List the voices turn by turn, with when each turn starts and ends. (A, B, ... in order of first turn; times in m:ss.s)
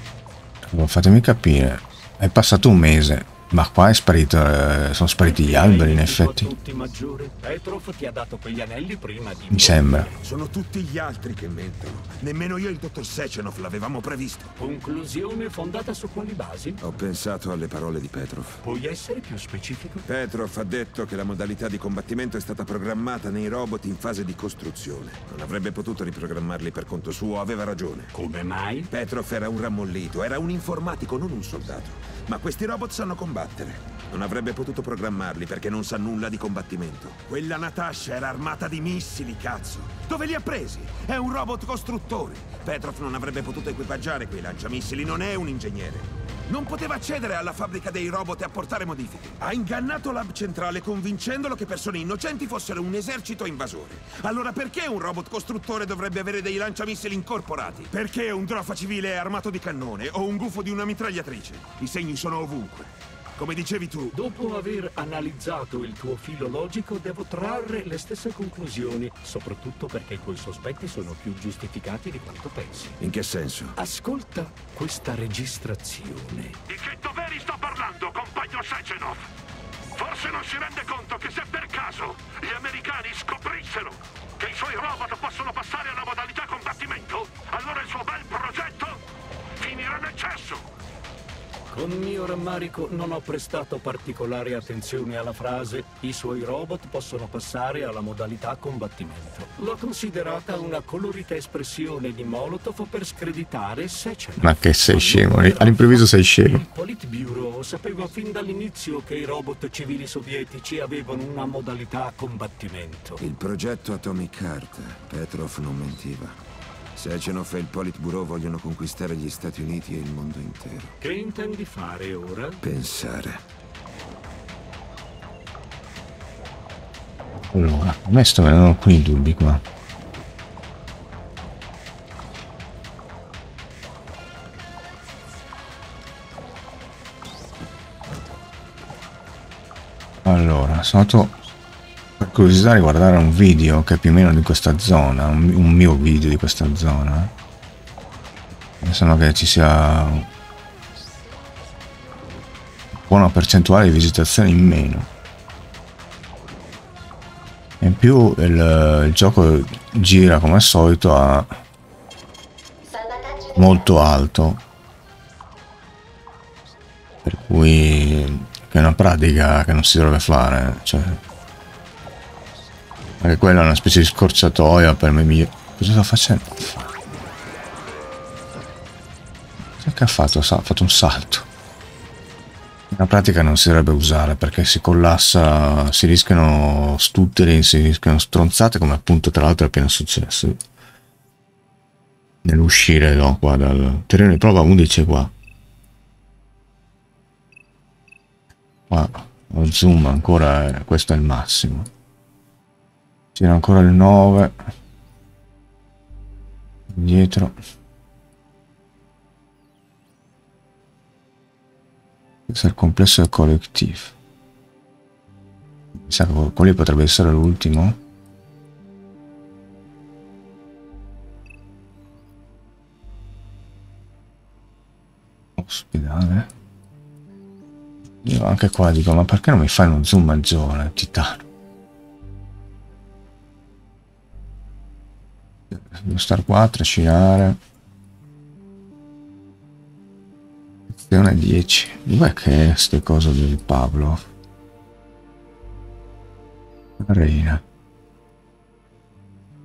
0:00.7-0:06.5 A
0:05.2-0:10.1 B
0:09.5-0:10.1 A
0:10.2-0:14.5 C
0:14.6-0:16.8 B
0:16.8-0:18.6 C
0:18.6-0:20.0 B
0:20.0-0:28.1 C
0:28.1-0:28.9 B
0:28.9-1:04.2 C
1:04.1-1:13.0 B
1:13.0-1:13.7 C
1:13.8-1:16.6 B
1:16.7-1:19.2 D
1:19.9-1:29.0 D
1:29.6-1:30.7 D
1:31.7-1:53.2 B
1:44.4-1:46.6 A
1:53.2-1:56.4 C
1:57.0-2:01.0 C
2:01.0-2:02.6 B
2:02.6-2:03.4 C
2:07.5-2:09.6 A
2:20.2-2:21.4 A
2:22.2-2:27.3 A
2:28.8-2:30.3 A
2:32.9-2:35.1 A
2:37.8-2:41.6 A
2:43.5-2:44.6 A
2:47.2-2:51.2 A
2:53.2-2:56.9 A
2:59.8-3:01.5 A
3:02.9-3:10.6 A
3:12.4-3:15.3 A
3:18.9-3:21.9 A
3:23.3-3:24.6 A
3:26.9-3:27.6 A
3:32.5-3:34.1 A
3:35.9-3:38.0 A
3:45.6-3:46.5 A
3:48.2-3:51.4 A
3:55.7-3:57.6 A
4:00.9-4:04.3 A
4:07.0-4:07.6 A